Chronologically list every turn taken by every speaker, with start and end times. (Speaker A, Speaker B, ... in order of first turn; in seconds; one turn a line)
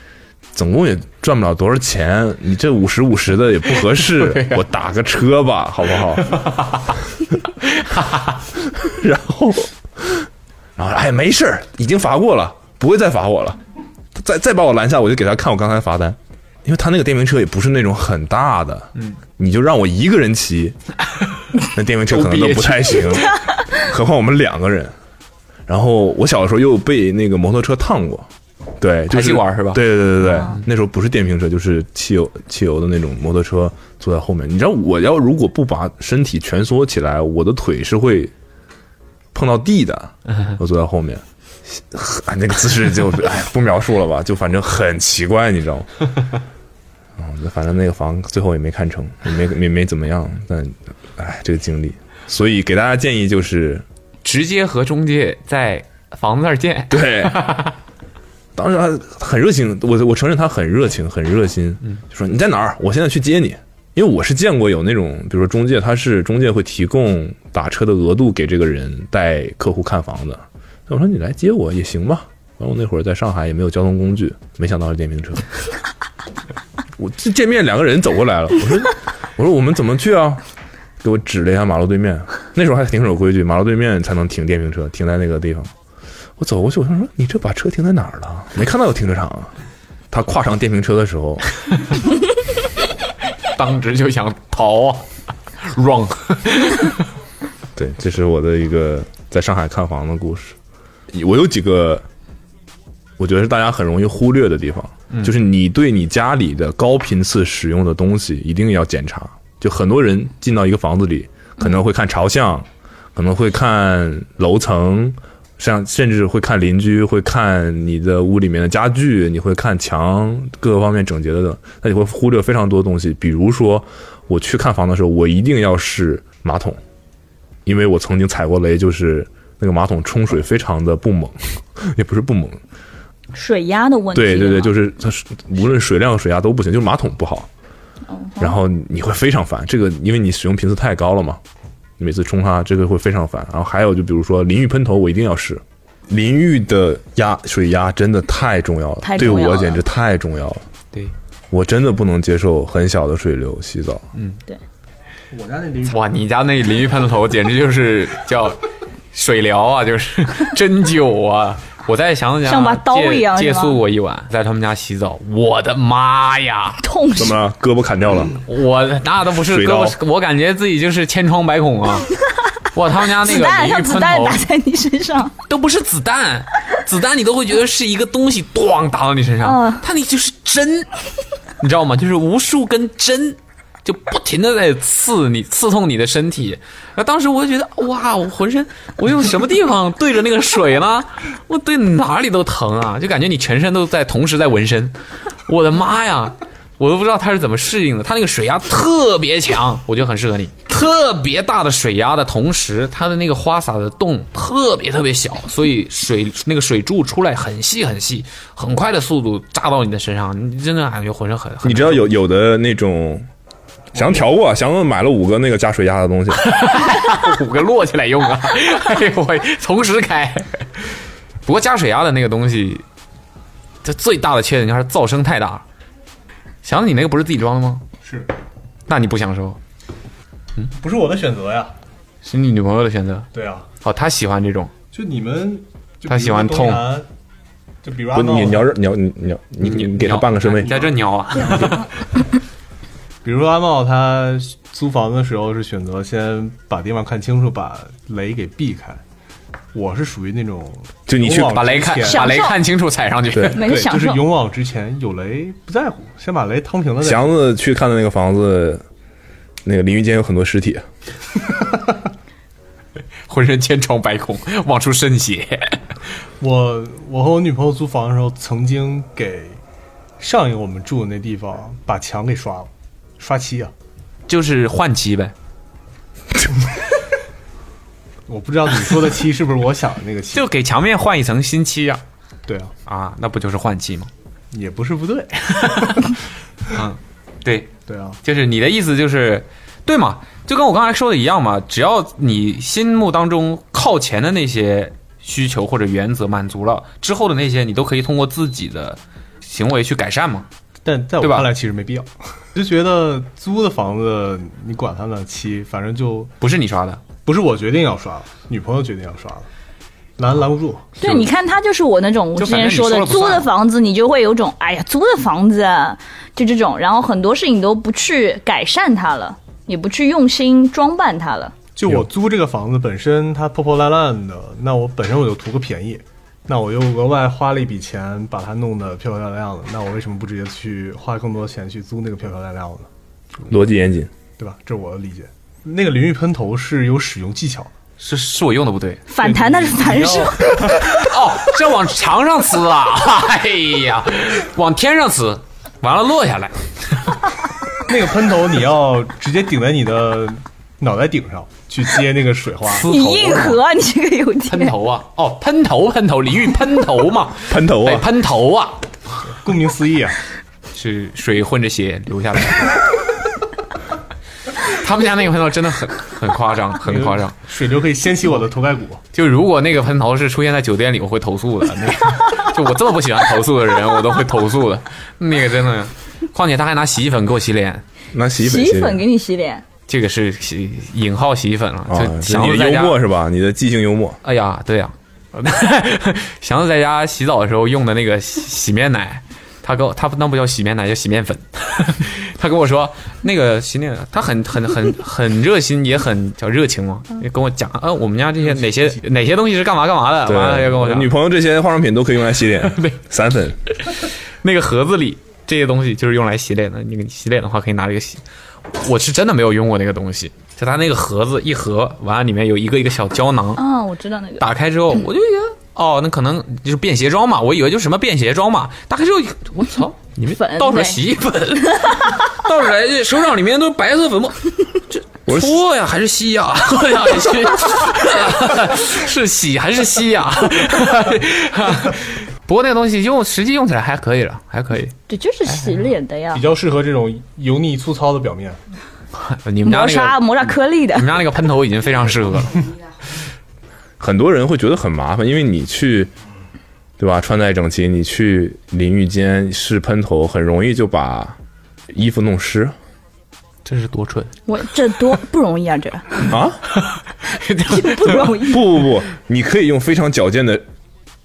Speaker A: 0.5-6.4
Speaker B: 3.8-4.6
Speaker B: 6.2-6.8
Speaker B: 7.7-8.4
Speaker A: 8.7-13.6
Speaker A: 14.1-20.8
Speaker A: 21.6-24.9
Speaker B: 22.1-23.3
Speaker A: 25.7-28.3
Speaker A: 28.8-38.3
Speaker B: 29.1-30.6
Speaker A: 39.3-45.9
Speaker A: 47.2-53.8
Speaker B: 54.2-57.8
Speaker A: 56.9-57.6
Speaker A: 58.5-75.4
Speaker A: 77.0-80.4
Speaker A: 81.0-85.7
Speaker A: 86.4-89.5
Speaker A: 90.1-91.5
Speaker B: 93.5-95.1
Speaker B: 95.6-97.0
Speaker A: 97.8-100.5
Speaker A: 101.1-102.0
Speaker A: 103.2-126.8
Speaker A: 127.6-132.6
Speaker C: 133.3-134.7
Speaker A: 134.1-137.5
Speaker C: 138.1-138.5
Speaker A: 138.4-141.4
Speaker A: 142.0-150.6
Speaker C: 149.0-149.8
Speaker A: 151.5-154.0
Speaker D: 155.3-156.0
Speaker B: 155.8-166.8
Speaker C: 162.4-163.8
Speaker C: 166.8-167.4
Speaker A: 167.2-168.4
Speaker B: 168.4-172.1
Speaker A: 169.4-169.9
Speaker B: 172.7-174.4
Speaker C: 173.1-175.3
Speaker B: 175.5-180.9
Speaker C: 179.4-179.8
Speaker B: 181.6-194.9
Speaker B: 195.4-212.1
Speaker A: 211.6-213.2
Speaker A: 213.9-216.5
Speaker B: 216.4-222.8
Speaker B: 223.8-225.6
Speaker B: 226.6-227.8
Speaker D: 228.0-228.3
Speaker B: 228.9-229.6
Speaker D: 230.7-231.7
Speaker B: 232.2-233.3
Speaker D: 233.3-233.7
Speaker B: 233.8-234.7
Speaker D: 234.9-237.1
Speaker B: 236.1-236.9
Speaker D: 237.8-238.7
Speaker A: 238.1-240.7
Speaker B: 239.6-241.9
Speaker A: 241.4-241.7
Speaker D: 243.2-249.0
Speaker D: 249.7-252.3
Speaker A: 251.1-251.6
Speaker B: 251.4-253.6
Speaker C: 252.0-252.6
Speaker C: 253.4-254.3
Speaker D: 253.6-257.3
Speaker A: 257.0-258.8
Speaker A: 259.6-260.8
Speaker B: 263.3-265.9
Speaker D: 266.4-269.6
Speaker D: 270.2-273.7
Speaker B: 274.3-275.3
Speaker D: 278.3-280.5
Speaker B: 280.3-282.0
Speaker D: 282.5-282.7
Speaker B: 282.9-284.1
Speaker D: 284.5-286.0
Speaker B: 286.7-287.7
Speaker D: 287.9-288.2
Speaker B: 288.2-300.5
Speaker D: 300.8-306.3
Speaker B: 301.2-301.5
Speaker B: 306.4-307.0
Speaker D: 307.2-309.5
Speaker D: 310.2-311.0
Speaker C: 311.0-321.5
Speaker B: 311.0-311.3
Speaker B: 312.4-313.5
Speaker D: 321.8-332.9
Speaker A: 333.5-334.1
Speaker D: 334.4-337.7
Speaker B: 338.0-339.0
Speaker C: 339.1-340.9
Speaker D: 339.2-340.7
Speaker B: 340.9-347.2
Speaker D: 347.9-352.9
Speaker B: 352.6-353.6
Speaker C: 352.8-354.7
Speaker B: 354.5-358.8
Speaker A: 357.5-358.1
Speaker D: 359.2-360.2
Speaker B: 360.7-362.9
Speaker B: 364.6-367.4
Speaker D: 366.8-369.0
Speaker B: 369.1-377.8
Speaker A: 378.1-379.0
Speaker C: 378.4-379.6
Speaker B: 379.9-383.0
Speaker A: 381.9-384.2
Speaker B: 384.2-401.1
Speaker A: 400.2-403.6
Speaker B: 402.6-403.0
Speaker B: 403.8-413.6
Speaker C: 413.6-414.4
Speaker B: 414.4-434.9
Speaker C: 420.3-421.0
Speaker A: 425.3-425.6
Speaker C: 435.1-436.4
Speaker D: 436.3-438.6
Speaker B: 439.2-442.6
Speaker C: 439.6-441.2
Speaker A: 444.0-446.1
Speaker A: 447.0-451.4
Speaker A: 451.9-452.7
Speaker B: 453.6-454.3
Speaker C: 454.5-456.2
Speaker A: 456.3-456.6
Speaker B: 456.8-458.3
Speaker C: 457.7-458.7
Speaker A: 458.4-460.6